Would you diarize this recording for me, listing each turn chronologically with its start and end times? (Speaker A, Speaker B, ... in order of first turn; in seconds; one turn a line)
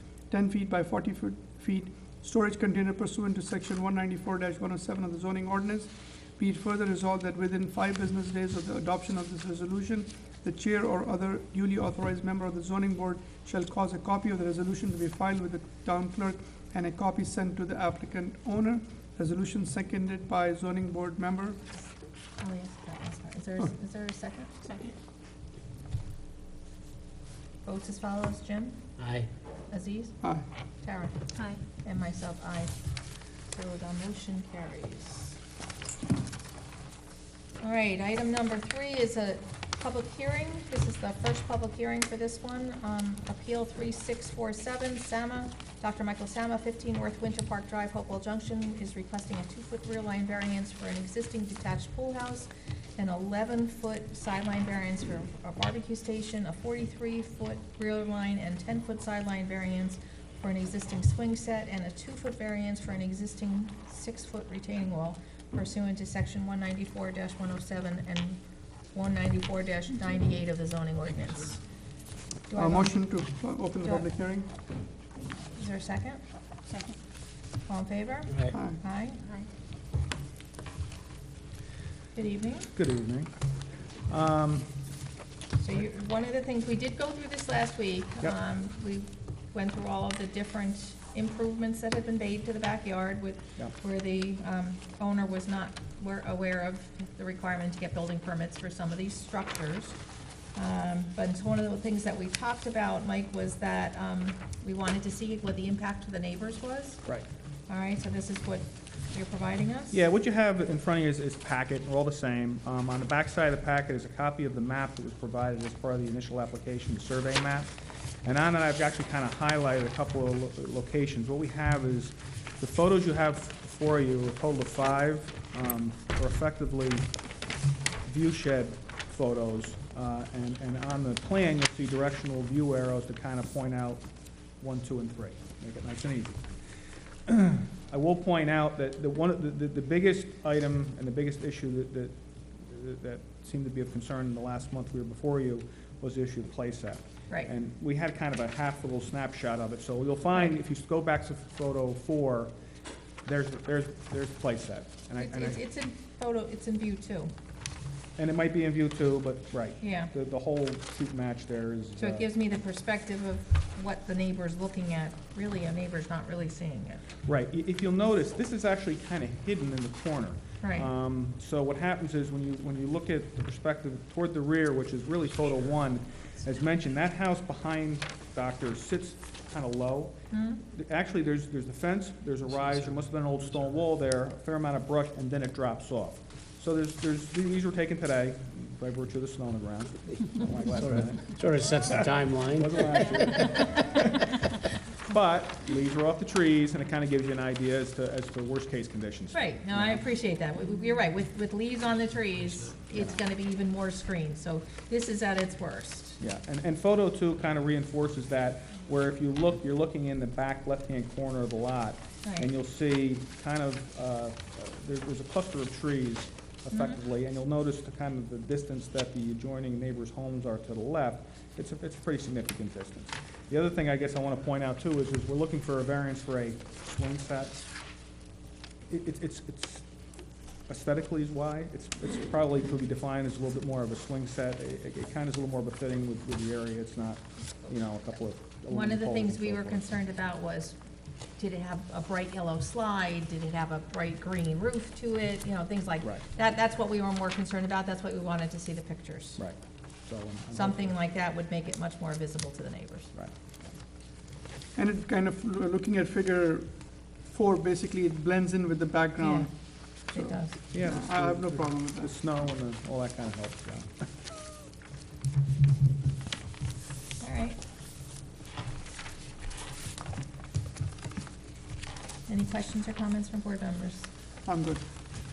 Speaker A: 0.3-21.6
Speaker B: 22.4-24.6
Speaker B: 27.6-28.8
Speaker C: 29.0-29.3
Speaker B: 29.7-30.1
Speaker B: 30.8-31.2
Speaker B: 31.8-32.7
Speaker B: 33.5-35.4
Speaker B: 37.6-68.4
Speaker B: 68.9-71.6
Speaker B: 72.5-73.0
Speaker A: 72.5-74.5
Speaker B: 75.5-76.2
Speaker B: 77.7-79.2
Speaker A: 78.5-78.8
Speaker B: 82.1-82.7
Speaker D: 82.7-83.3
Speaker D: 84.1-84.7
Speaker B: 85.6-100.0
Speaker B: 100.5-107.0
Speaker B: 107.7-110.0
Speaker D: 109.9-117.7
Speaker D: 118.2-127.1
Speaker D: 128.0-134.0
Speaker D: 134.6-136.5
Speaker D: 137.2-152.5
Speaker D: 153.2-155.6
Speaker B: 155.2-157.3
Speaker D: 158.2-162.3
Speaker B: 159.8-160.1
Speaker B: 162.0-167.1
Speaker D: 167.2-180.2
Speaker B: 170.6-170.9
Speaker B: 180.3-180.6
Speaker D: 180.7-192.0
Speaker C: 190.8-193.5
Speaker D: 192.6-194.2
Speaker D: 195.1-200.0
Speaker B: 199.3-206.2
Speaker D: 206.2-227.7
Speaker B: 216.7-217.0
Speaker D: 228.9-229.8
Speaker D: 230.7-239.9
Speaker B: 238.7-240.8
Speaker B: 241.4-249.4
Speaker D: 249.4-250.9
Speaker B: 250.5-253.1
Speaker A: 254.8-256.7
Speaker A: 257.2-259.5
Speaker B: 259.2-259.5
Speaker B: 260.0-260.6
Speaker A: 260.1-262.1
Speaker D: 260.7-264.1
Speaker B: 267.2-267.6
Speaker B: 272.3-274.1
Speaker A: 274.4-274.8